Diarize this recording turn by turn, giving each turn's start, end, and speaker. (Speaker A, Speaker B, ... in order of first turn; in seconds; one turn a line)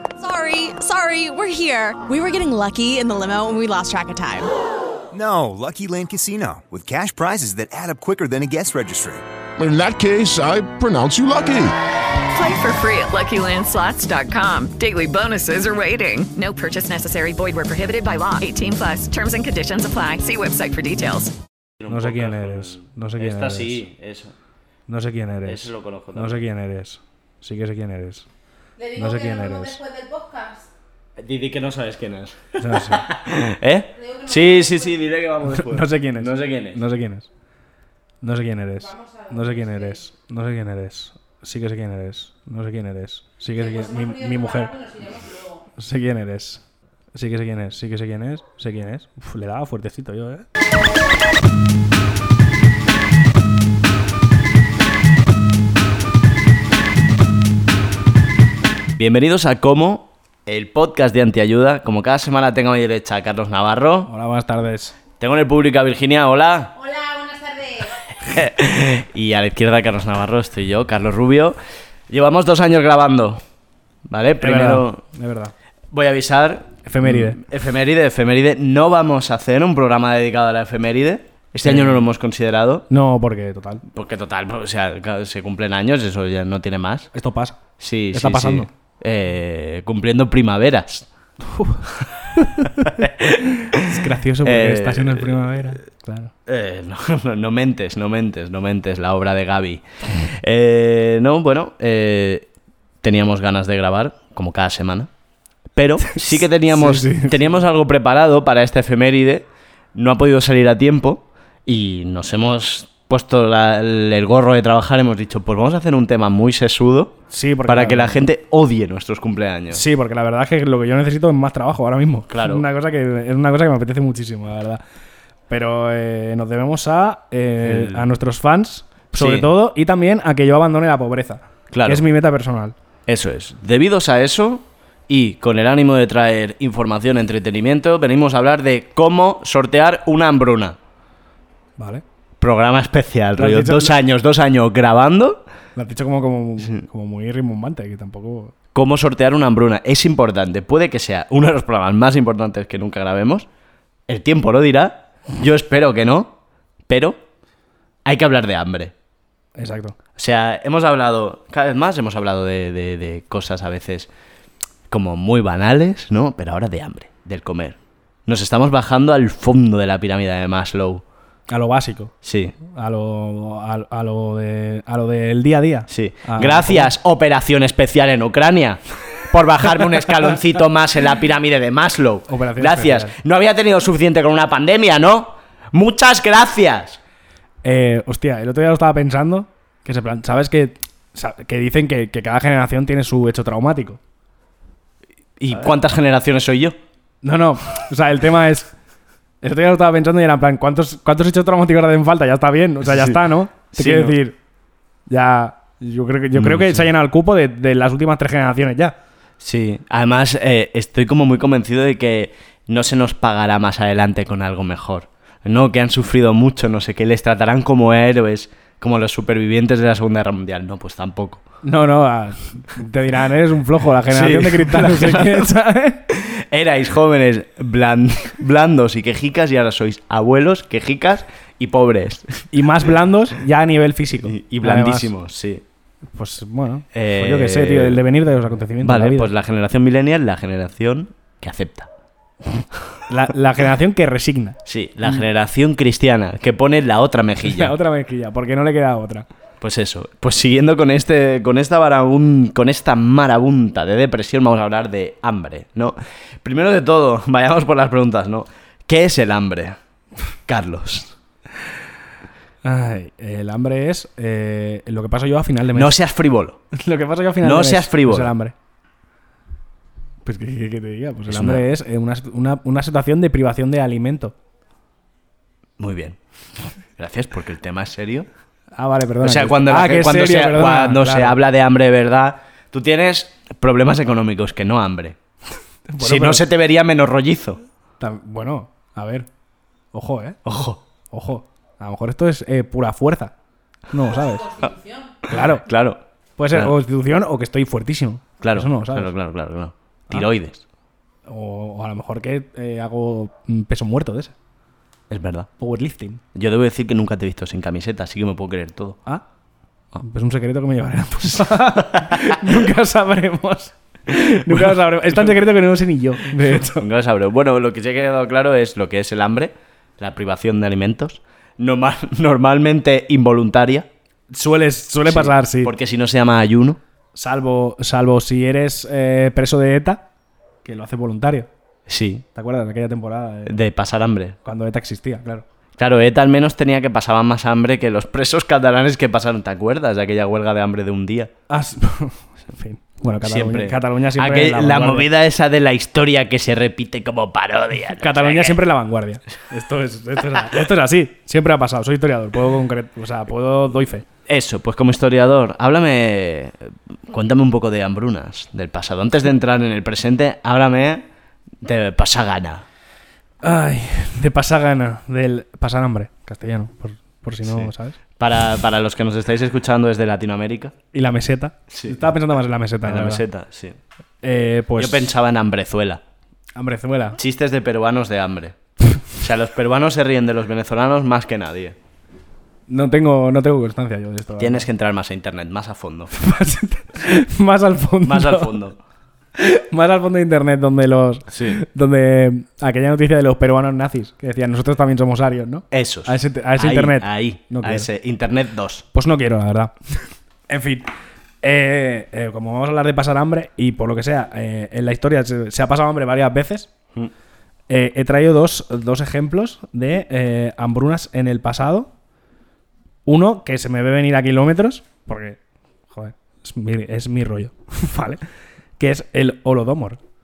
Speaker A: 0.2-4.5
Speaker B: 5.1-9.2
Speaker C: 9.6-11.7
Speaker D: 12.3-21.3
Speaker E: 21.8-24.3
Speaker F: 21.9-23.9
Speaker F: 24.9-28.3
Speaker E: 25.4-26.4
Speaker G: 28.8-30.7
Speaker F: 29.0-29.8
Speaker E: 31.2-36.8
Speaker F: 32.6-33.1
Speaker G: 34.0-35.0
Speaker F: 35.5-37.3
Speaker F: 38.2-44.7
Speaker G: 38.8-40.0
Speaker G: 43.5-45.7
Speaker F: 45.8-46.6
Speaker F: 47.1-50.5
Speaker E: 59.0-64.1
Speaker F: 64.1-65.0
Speaker E: 65.2-66.7
Speaker G: 66.8-68.0
Speaker E: 68.2-71.6
Speaker E: 72.1-73.4
Speaker E: 74.1-75.0
Speaker F: 74.4-75.5
Speaker E: 75.9-82.9
Speaker F: 76.9-77.4
Speaker F: 81.6-82.0
Speaker F: 82.9-83.8
Speaker E: 83.9-87.1
Speaker F: 87.1-87.6
Speaker E: 87.8-91.1
Speaker F: 88.1-88.7
Speaker F: 91.5-92.8
Speaker E: 92.6-95.6
Speaker F: 93.7-96.3
Speaker E: 96.5-102.5
Speaker E: 103.0-105.1
Speaker E: 105.8-119.8
Speaker F: 106.7-107.5
Speaker F: 117.3-118.3
Speaker F: 119.7-124.8
Speaker E: 122.3-122.6
Speaker F: 125.5-132.7
Speaker E: 127.6-128.1
Speaker E: 129.2-129.5
Speaker E: 131.7-132.1
Speaker E: 133.1-140.8
Speaker F: 141.8-142.0
Speaker E: 142.4-145.4
Speaker F: 143.4-144.0
Speaker F: 145.8-148.5
Speaker E: 148.7-153.5
Speaker E: 154.1-156.3
Speaker E: 156.9-157.2
Speaker E: 158.1-158.9
Speaker F: 159.6-160.0
Speaker E: 160.2-164.1
Speaker E: 164.9-171.0
Speaker F: 171.5-176.9
Speaker E: 172.2-172.6
Speaker E: 175.9-187.0
Speaker F: 182.3-183.2
Speaker F: 187.6-194.0
Speaker E: 195.4-196.8
Speaker F: 197.2-198.7
Speaker F: 199.4-204.4
Speaker E: 202.9-203.2
Speaker E: 203.7-204.2
Speaker F: 205.1-209.0
Speaker E: 206.3-206.9
Speaker E: 209.4-221.4
Speaker F: 221.6-226.1
Speaker E: 224.1-225.5
Speaker E: 226.1-232.5
Speaker F: 232.5-235.1
Speaker E: 234.2-235.6
Speaker F: 236.2-239.3
Speaker E: 236.9-238.0
Speaker E: 238.8-241.9
Speaker F: 243.1-244.6
Speaker E: 244.7-247.7
Speaker F: 247.5-249.3
Speaker E: 249.6-259.8
Speaker E: 260.5-261.1
Speaker F: 262.6-266.0
Speaker E: 265.7-266.6
Speaker F: 266.7-268.5
Speaker E: 267.4-268.3
Speaker F: 270.2-274.3
Speaker E: 271.3-271.6
Speaker E: 275.8-276.2
Speaker E: 277.0-278.3
Speaker F: 278.8-281.4
Speaker E: 279.2-285.2
Speaker F: 285.9-286.4
Speaker E: 286.0-287.6
Speaker F: 288.0-289.3
Speaker F: 289.9-290.4
Speaker E: 290.4-290.8
Speaker F: 291.1-293.3
Speaker F: 293.9-294.5
Speaker G: 294.1-295.2
Speaker F: 295.3-295.6
Speaker E: 295.3-296.0
Speaker F: 296.4-299.1
Speaker E: 298.4-300.6
Speaker F: 301.3-304.3
Speaker E: 305.1-305.5
Speaker F: 305.6-306.2
Speaker E: 306.3-309.0
Speaker F: 310.0-316.9
Speaker E: 311.4-312.4
Speaker E: 314.5-315.4
Speaker E: 316.3-323.9
Speaker F: 324.3-325.7
Speaker E: 325.1-326.8
Speaker F: 327.1-330.0
Speaker F: 330.6-331.5
Speaker E: 331.9-332.2
Speaker F: 332.4-333.6
Speaker E: 333.5-334.4
Speaker F: 334.4-335.4
Speaker E: 335.8-341.3
Speaker F: 341.5-345.1
Speaker E: 343.2-348.6
Speaker F: 348.0-354.1
Speaker E: 354.3-361.1
Speaker E: 361.6-362.6
Speaker F: 363.4-368.0
Speaker E: 367.4-370.8
Speaker F: 370.9-373.2
Speaker E: 371.7-372.1
Speaker E: 372.8-373.8
Speaker F: 374.2-375.1
Speaker E: 374.8-376.0
Speaker F: 376.6-377.2
Speaker E: 377.2-378.6
Speaker E: 379.1-381.8
Speaker F: 382.7-384.7
Speaker E: 384.4-386.1
Speaker F: 386.2-388.6
Speaker E: 388.1-388.8
Speaker F: 389.4-397.9
Speaker E: 391.3-391.6
Speaker E: 395.7-398.8
Speaker F: 398.9-400.9
Speaker F: 401.4-406.7
Speaker F: 407.7-411.9
Speaker F: 413.1-415.4
Speaker F: 415.9-418.2
Speaker F: 418.8-420.0